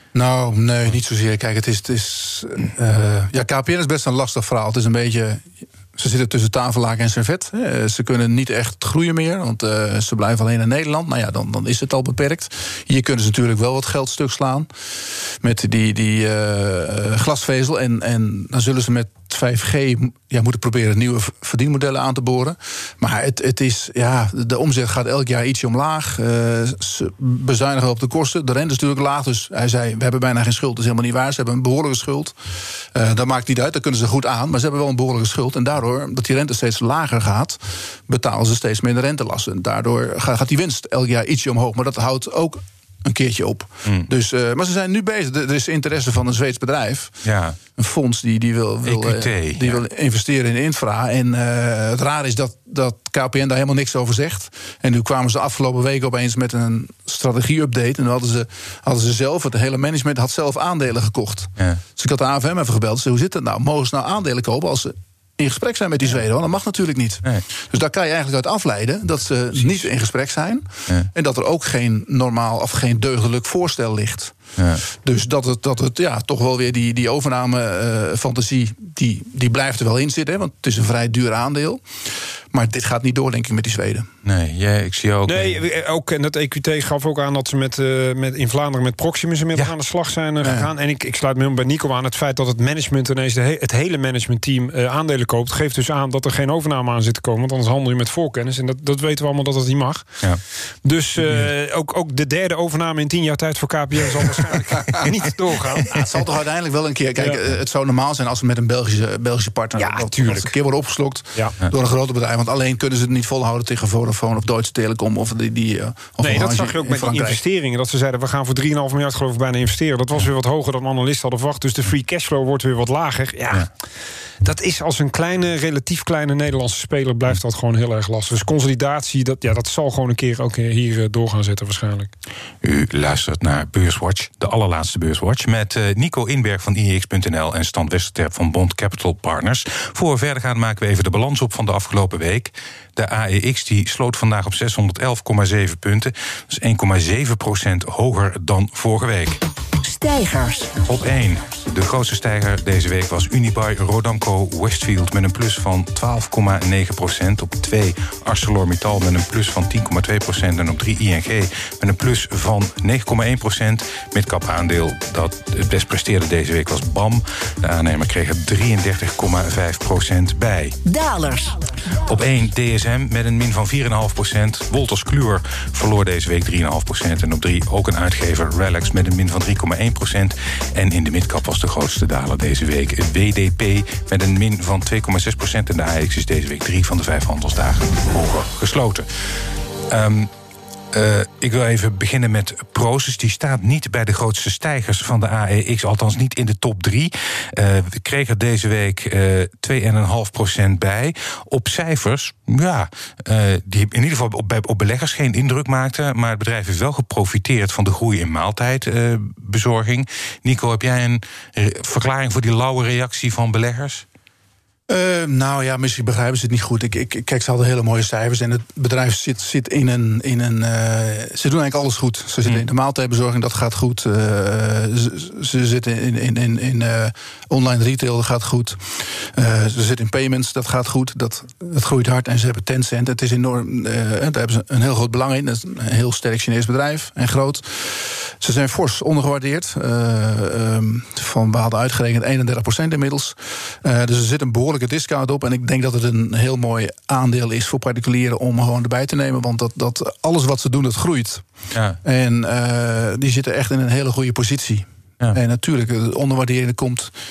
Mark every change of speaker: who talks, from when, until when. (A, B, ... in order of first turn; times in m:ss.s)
0:00.1-0:47.2 A
0:47.2-0:47.6 B
0:47.8-1:14.4 A
0:48.8-0:49.8 B
1:14.6-1:14.8 B
1:14.9-1:24.1 A
1:24.2-1:25.6 B
1:25.2-1:46.0 C
1:45.9-1:57.4 A
1:49.7-1:50.5 C
1:56.2-2:03.7 C
2:04.4-2:12.1 C
2:12.6-2:29.4 B
2:29.8-2:30.8 D
2:30.8-2:50.8 B
2:50.8-2:51.7 D
2:52.0-3:09.3 B
3:09.9-3:10.3 B
3:10.9-3:34.0 B
3:34.9-4:11.4 A
4:11.7-4:12.0 B
4:12.0-4:17.1 A